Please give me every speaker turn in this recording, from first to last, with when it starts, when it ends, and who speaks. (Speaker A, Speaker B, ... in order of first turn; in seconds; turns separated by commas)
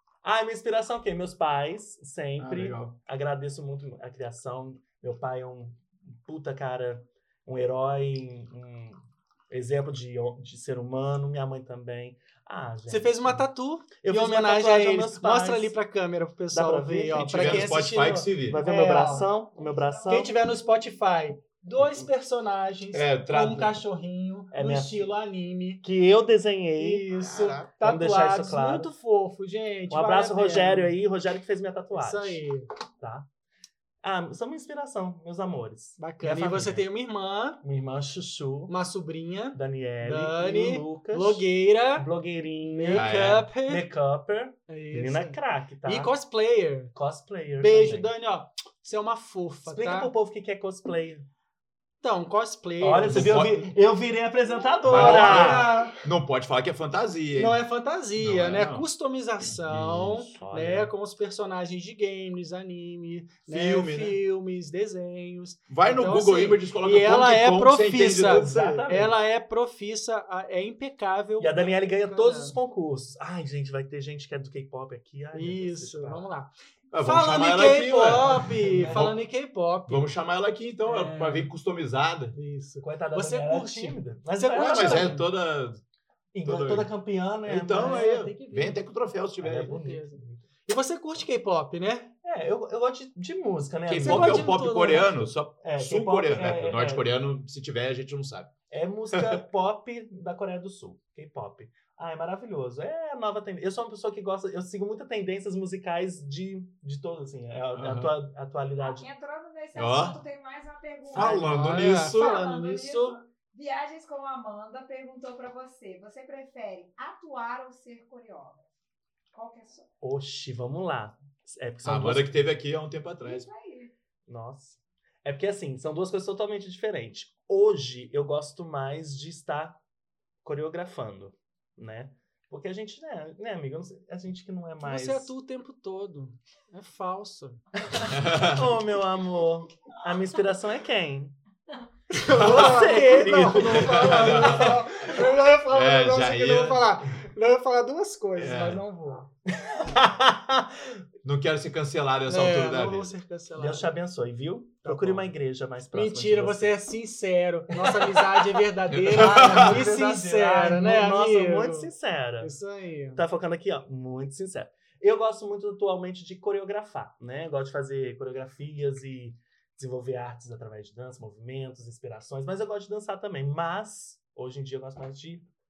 Speaker A: 0.2-13.4, Speaker B: 2.4-2.9, Speaker C: 12.9-19.3, Speaker A: 14.0-15.7, Speaker A: 16.5-20.3, Speaker B: 17.2-18.6, Speaker D: 18.9-20.6, Speaker C: 20.1-25.8, Speaker B: 22.9-23.8, Speaker A: 24.5-25.0, Speaker A: 25.8-27.1, Speaker C: 26.8-30.9, Speaker B: 27.1-27.7, Speaker A: 27.8-28.9, Speaker A: 29.9-32.4, Speaker C: 31.9-32.7, Speaker A: 33.0-33.2, Speaker A: 34.0-36.8, Speaker C: 36.0-37.6, Speaker A: 37.6-38.7, Speaker C: 38.7-42.1, Speaker A: 39.5-46.1, Speaker C: 42.7-43.9, Speaker B: 42.9-43.5, Speaker C: 44.7-46.9, Speaker A: 46.9-48.1, Speaker C: 47.6-50.1, Speaker A: 49.6-51.3, Speaker C: 52.0-53.5, Speaker A: 52.8-55.8, Speaker B: 53.1-53.6, Speaker B: 54.9-57.6, Speaker C: 54.9-56.0, Speaker C: 57.3-72.6, Speaker B: 58.2-58.9, Speaker B: 59.5-60.2, Speaker A: 60.2-60.9, Speaker B: 63.5-64.2, Speaker B: 65.7-68.8, Speaker A: 67.9-69.1, Speaker A: 71.4-76.3, Speaker C: 75.3-80.1, Speaker B: 76.9-79.2, Speaker A: 78.7-79.1, Speaker B: 79.9-82.3, Speaker C: 80.8-81.5, Speaker C: 82.3-85.2, Speaker A: 82.8-85.2, Speaker B: 84.5-85.8, Speaker A: 86.3-88.1, Speaker B: 86.4-86.9, Speaker B: 87.4-89.8, Speaker C: 87.7-88.8, Speaker A: 89.4-90.5, Speaker C: 89.6-92.1, Speaker A: 92.2-94.6, Speaker B: 93.9-98.5, Speaker C: 94.0-95.3, Speaker A: 95.5-97.0, Speaker A: 98.7-109.1, Speaker B: 99.1-99.4, Speaker B: 107.7-108.1, Speaker D: 108.8-118.7, Speaker B: 109.8-110.2, Speaker B: 111.1-112.3, Speaker C: 111.1-113.2, Speaker A: 111.2-111.5, Speaker D: 119.3-119.9, Speaker A: 120.0-122.5, Speaker B: 121.8-123.5, Speaker D: 123.2-123.9, Speaker A: 124.3-129.8, Speaker A: 130.4-135.3, Speaker C: 134.8-137.6, Speaker A: 137.9-141.3, Speaker B: 138.1-138.6, Speaker C: 142.1-149.3, Speaker A: 142.3-144.8, Speaker B: 142.3-142.9, Speaker B: 143.5-147.2, Speaker B: 148.4-148.8, Speaker A: 149.5-151.0, Speaker B: 151.2-153.1, Speaker C: 152.3-153.9, Speaker A: 153.5-156.8, Speaker C: 154.8-155.3, Speaker C: 155.9-163.2, Speaker A: 157.7-162.5, Speaker B: 158.9-159.8, Speaker A: 163.1-175.5